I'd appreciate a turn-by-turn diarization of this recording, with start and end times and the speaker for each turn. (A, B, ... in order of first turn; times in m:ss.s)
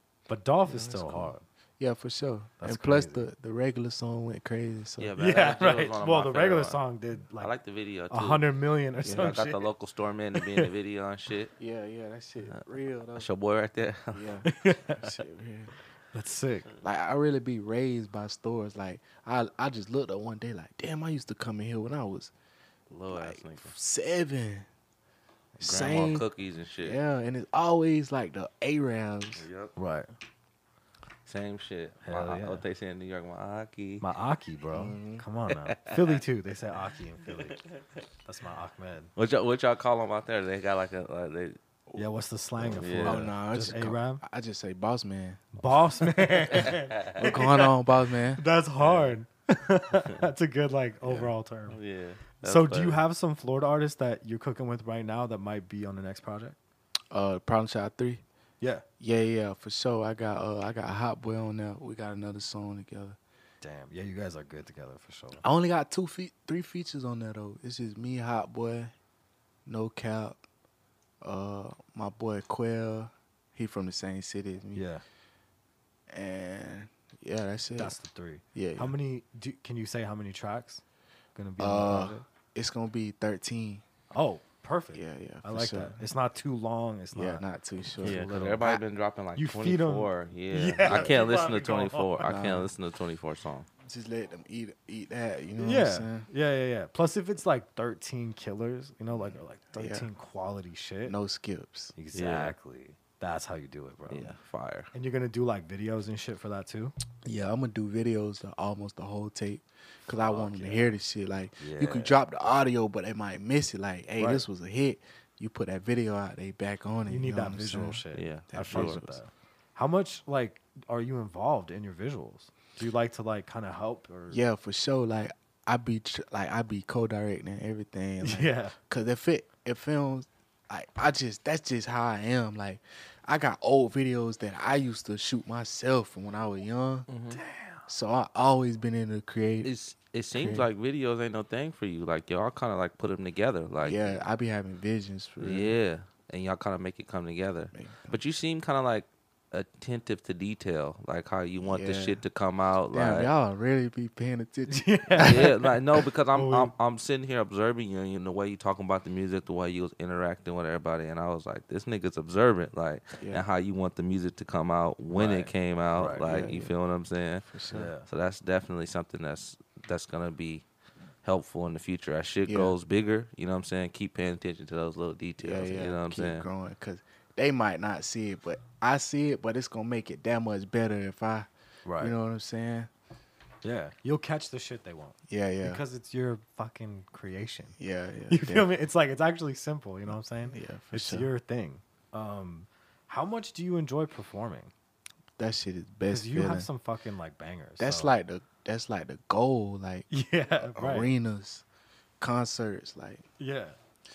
0:00.3-0:01.4 A
0:00.6-0:05.1 B
0:02.6-0:03.3 A
0:05.0-0:06.8 C
0:05.2-0:07.5 A
0:07.4-0:08.5 C
0:08.1-0:09.6 A
0:09.0-0:09.3 B
0:09.1-0:11.5 C
0:10.4-0:10.7 A
0:11.6-0:13.3 B
0:13.2-0:14.3 C
0:14.1-0:15.7 B
0:14.4-0:15.2 A
0:16.1-0:16.7 A
0:16.8-0:22.3 B
0:22.9-0:23.7 C
0:23.1-0:24.7 B
0:25.6-0:26.2 B
0:25.6-0:27.0 C
0:26.8-0:29.4 B
0:29.4-0:29.7 C
0:29.8-0:30.1 A
0:31.3-0:34.0 C
0:32.0-0:32.6 A
0:34.0-0:37.6 A
0:34.7-0:35.3 B
0:35.5-0:36.2 C
0:37.3-0:37.8 C
0:38.2-0:39.1 A
0:39.2-0:41.6 C
0:42.0-0:44.2 A
0:42.6-0:43.3 C
0:43.0-0:45.5 B
0:45.6-0:47.8 A
0:46.5-0:47.4 C
0:46.5-0:48.4 B
0:48.4-0:51.8 A
0:48.8-0:49.2 C
0:51.0-0:53.0 C
0:52.4-0:56.6 A
0:57.1-0:58.2 B
0:59.0-1:03.2 B
1:03.6-1:05.4 A
1:05.4-1:08.9 B
1:09.7-1:10.4 B
1:11.2-1:14.8 B
1:14.8-1:15.0 A
1:16.1-1:18.0 B
1:17.8-1:20.8 A
1:18.5-1:19.0 B
1:21.4-1:22.2 A
1:21.6-1:23.8 B
1:24.1-1:27.4 A
1:24.9-1:26.1 B
1:27.1-1:28.8 B
1:28.0-1:28.7 A
1:28.0-1:33.7 C
1:29.4-1:32.3 A
1:30.8-1:31.2 B
1:32.2-1:32.7 B
1:33.8-1:36.3 B
1:35.6-1:41.2 A
1:39.1-1:40.1 B
1:41.0-1:42.0 B
1:42.0-1:44.4 A
1:42.1-1:42.6 C
1:44.1-1:44.9 C
1:44.9-1:46.9 A
1:47.2-1:59.2 B
1:50.3-1:50.9 C
1:51.6-1:52.1 C
1:54.2-1:54.4 A
1:57.1-2:04.4 A
1:58.1-1:59.0 C
2:04.3-2:17.1 B
2:08.2-2:08.7 A
2:17.1-2:17.4 C
2:17.3-2:17.9 A
2:17.9-2:19.7 B
2:19.6-2:24.2 C
2:20.3-2:20.7 B
2:23.8-2:25.8 B
2:25.4-2:33.3 C
2:27.7-2:28.2 B
2:31.6-2:32.2 B
2:32.9-2:35.6 B
2:34.7-2:35.6 A
2:35.2-2:47.4 C
2:36.3-2:36.7 A
2:43.2-2:43.4 B
2:45.2-2:46.3 A
2:46.2-2:46.8 B
2:47.4-2:47.9 B
2:47.7-2:48.1 A
2:48.1-2:50.6 C
2:51.2-2:56.5 C
2:52.5-2:52.8 B
2:55.4-3:02.9 B
3:01.8-3:02.2 A
3:03.6-3:07.8 A
3:05.3-3:05.8 B
3:07.8-3:08.7 B
3:08.3-3:14.7 A
3:10.1-3:11.3 B
3:15.4-3:16.7 B
3:16.1-3:18.2 A
3:17.8-3:21.6 B
3:20.1-3:21.1 A
3:22.2-3:23.2 B
3:23.4-3:23.8 A